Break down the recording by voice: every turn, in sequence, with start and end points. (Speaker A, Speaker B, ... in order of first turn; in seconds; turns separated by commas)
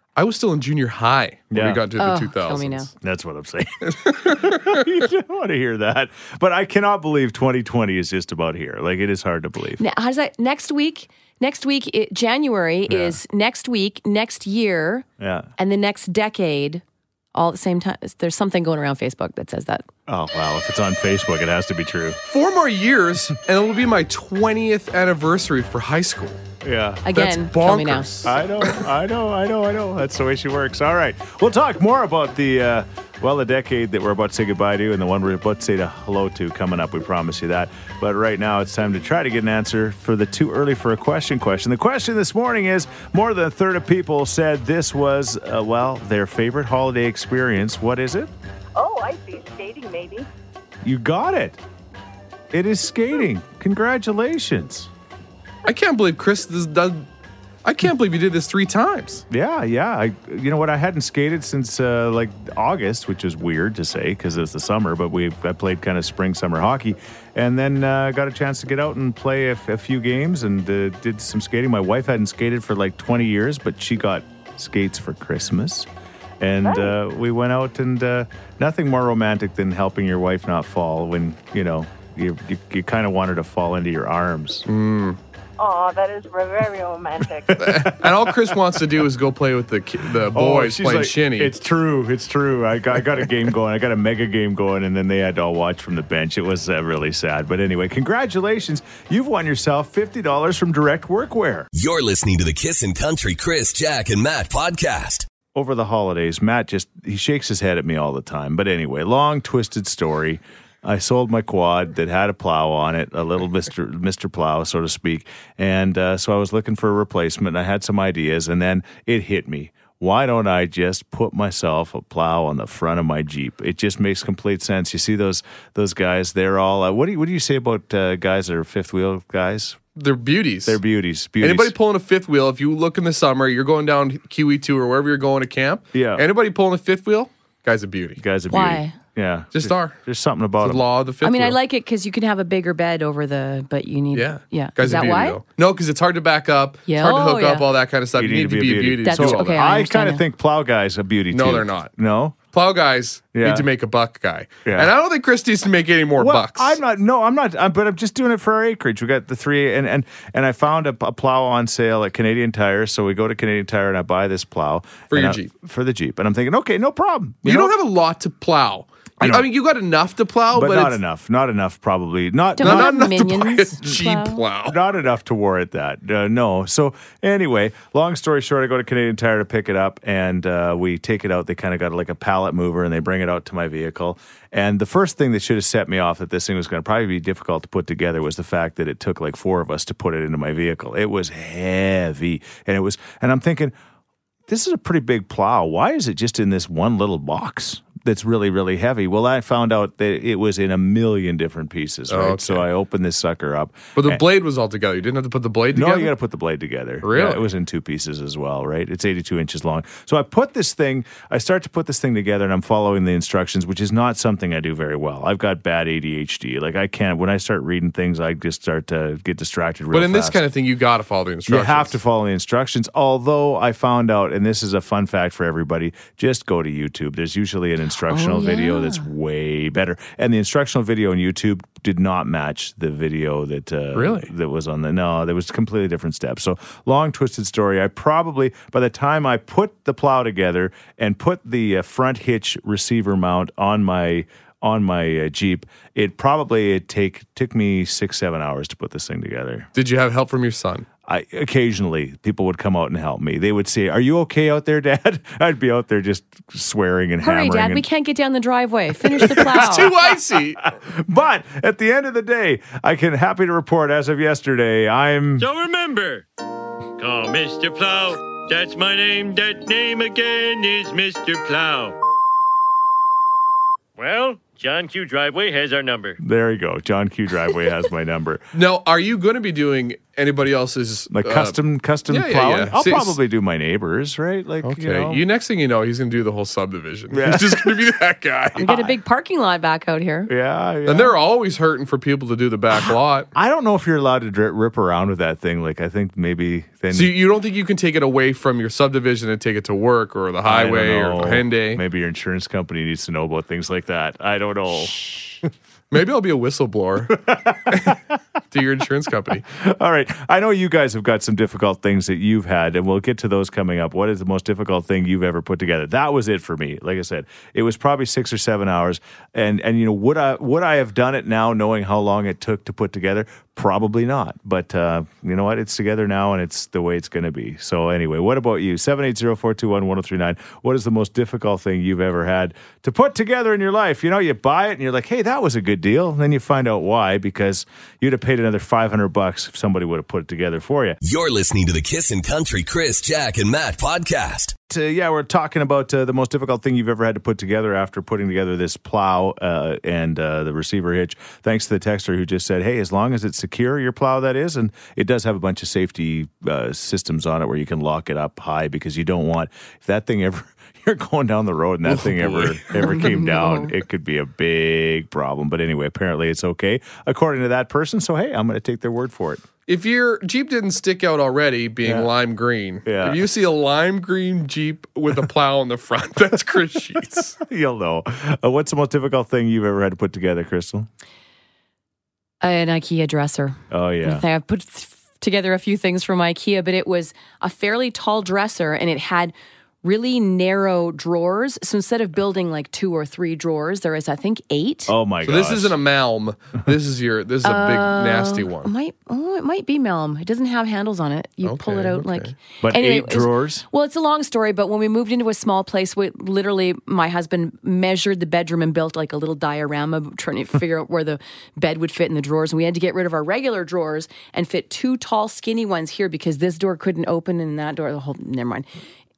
Speaker A: 0.2-2.9, Speaker B: 1.5-1.8, Speaker C: 2.0-2.9, Speaker B: 3.0-9.8, Speaker A: 3.9-4.8, Speaker C: 9.8-15.1, Speaker B: 12.9-13.2, Speaker B: 15.2-15.5, Speaker C: 15.6-16.8, Speaker C: 17.4-19.9, Speaker B: 20.1-22.2, Speaker A: 22.3-26.4, Speaker B: 26.6-27.0, Speaker C: 27.1-28.1, Speaker A: 27.1-28.8, Speaker B: 28.2-48.3, Speaker D: 48.8-50.3, Speaker B: 50.8-51.6, Speaker B: 52.5-54.9, Speaker A: 55.6-57.1, Speaker A: 57.6-59.2, Speaker B: 59.3-75.9, Speaker B: 76.4-84.7, Speaker D: 76.6-76.9, Speaker A: 84.7-85.2, Speaker D: 85.6-87.6, Speaker B: 87.5-88.6, Speaker A: 87.6-91.5, Speaker B: 90.3-101.7, Speaker E: 101.7-105.3, Speaker B: 105.5-129.8, Speaker A: 130.0-130.8, Speaker B: 130.7-131.8, Speaker A: 131.4-138.2, Speaker B: 135.9-136.2, Speaker B: 138.2-140.8, Speaker C: 138.5-138.9, Speaker A: 139.5-140.0, Speaker A: 140.6-141.6, Speaker C: 141.2-145.4, Speaker A: 144.1-149.6, Speaker C: 146.9-147.7, Speaker B: 148.1-152.4, Speaker C: 149.1-150.2, Speaker A: 151.3-151.9, Speaker A: 152.5-156.8, Speaker B: 153.3-153.7, Speaker B: 154.7-154.9, Speaker B: 156.2-167.8, Speaker A: 165.1-165.5, Speaker A: 167.4-171.0, Speaker B: 169.2-169.5, Speaker B: 170.5-173.0, Speaker C: 172.6-174.4, Speaker A: 172.6-174.8, Speaker B: 174.7-193.7, Speaker B: 194.5-204.2, Speaker A: 202.1-202.7, Speaker A: 204.0-206.1, Speaker B: 205.7-220.4, Speaker A: 207.0-207.4, Speaker A: 219.9-222.0, Speaker B: 221.5-249.7, Speaker C: 228.1-229.1, Speaker A: 233.9-234.3, Speaker A: 249.8-250.9, Speaker B: 251.1-257.9, Speaker C: 257.2-259.9, Speaker A: 259.4-260.7, Speaker B: 260.8-265.5, Speaker F: 265.4-266.2, Speaker F: 267.0-272.0, Speaker F: 274.0-276.2, Speaker B: 276.2-278.4, Speaker A: 278.5-283.2, Speaker B: 281.1-285.2, Speaker A: 284.6-288.7, Speaker B: 287.1-287.8, Speaker C: 288.6-290.3, Speaker B: 288.6-288.9, Speaker B: 290.3-291.1, Speaker A: 290.9-293.3, Speaker B: 293.3-297.1, Speaker A: 296.9-301.8, Speaker B: 300.4-305.4, Speaker A: 305.9-308.0, Speaker B: 307.2-307.9, Speaker A: 308.5-309.4, Speaker B: 309.5-341.0, Speaker E: 341.0-344.6, Speaker B: 344.7-369.4, Speaker A: 361.9-363.0, Speaker C: 362.8-363.7, Speaker A: 369.7-377.4, Speaker B: 371.8-372.1, Speaker B: 372.9-373.2, Speaker B: 377.4-380.9, Speaker C: 382.4-394.9, Speaker B: 383.7-384.2, Speaker B: 394.9-395.8, Speaker A: 395.2-398.7, Speaker C: 397.4-418.7, Speaker A: 401.4-402.3, Speaker B: 402.6-403.6